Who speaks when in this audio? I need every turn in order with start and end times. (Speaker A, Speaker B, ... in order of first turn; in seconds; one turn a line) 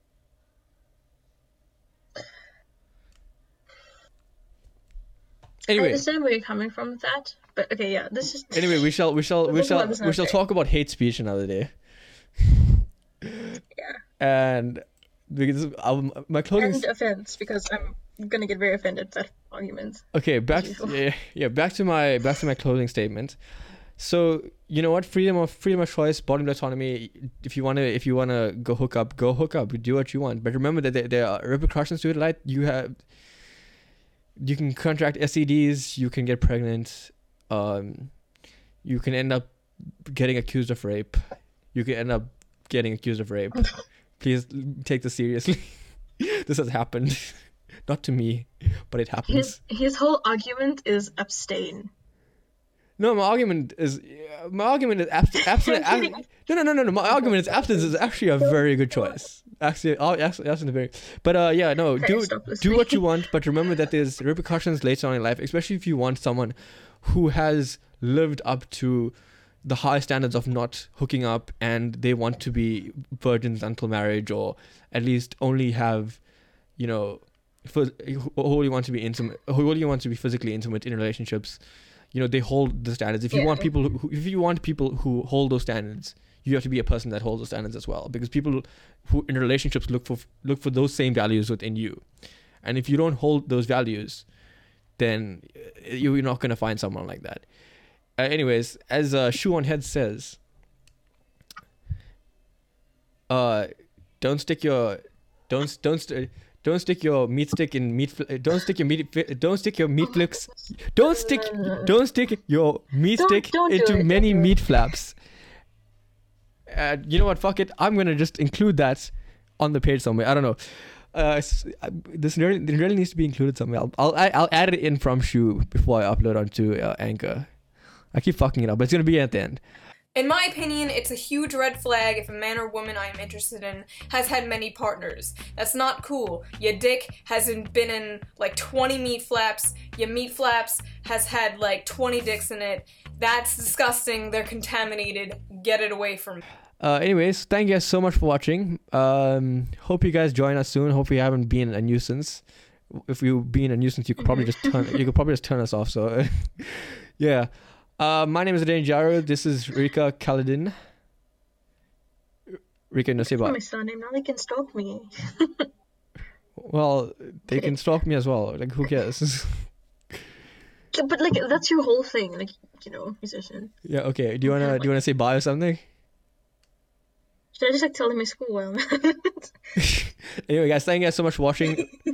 Speaker A: 5.7-6.0
Speaker B: 5.8-8.9
Speaker A: 8.5-11.7
Speaker B: 9.5-10.4
Speaker A: 12.4-12.7
Speaker B: 13.7-14.0
Speaker A: 14.2-16.8
Speaker B: 16.6-21.0
Speaker A: 20.1-23.4
Speaker A: 24.0-33.1
Speaker A: 34.4-38.2
Speaker A: 38.8-41.2
Speaker A: 41.7-49.6
Speaker B: 49.3-51.9
Speaker A: 53.0-76.2
Speaker B: 55.4-56.3
Speaker B: 57.0-59.2
Speaker B: 62.0-63.0
Speaker A: 76.8-81.6
Speaker A: 82.1-92.0
Speaker B: 83.3-83.7
Speaker A: 92.6-94.3
Speaker A: 95.0-97.5
Speaker A: 98.2-100.4
Speaker A: 103.3-115.2
Speaker B: 110.0-111.9
Speaker B: 113.2-114.6
Speaker A: 116.7-127.5
Speaker A: 128.1-129.6
Speaker C: 130.1-146.4
Speaker A: 146.8-160.7
Speaker B: 154.3-155.0
Speaker A: 162.9-163.6
Speaker B: 163.2-165.7
Speaker A: 166.6-169.7
Speaker B: 167.5-167.8
Speaker B: 170.9-173.8
Speaker A: 173.8-175.8
Speaker B: 174.4-174.9
Speaker B: 177.5-179.5
Speaker A: 179.8-181.9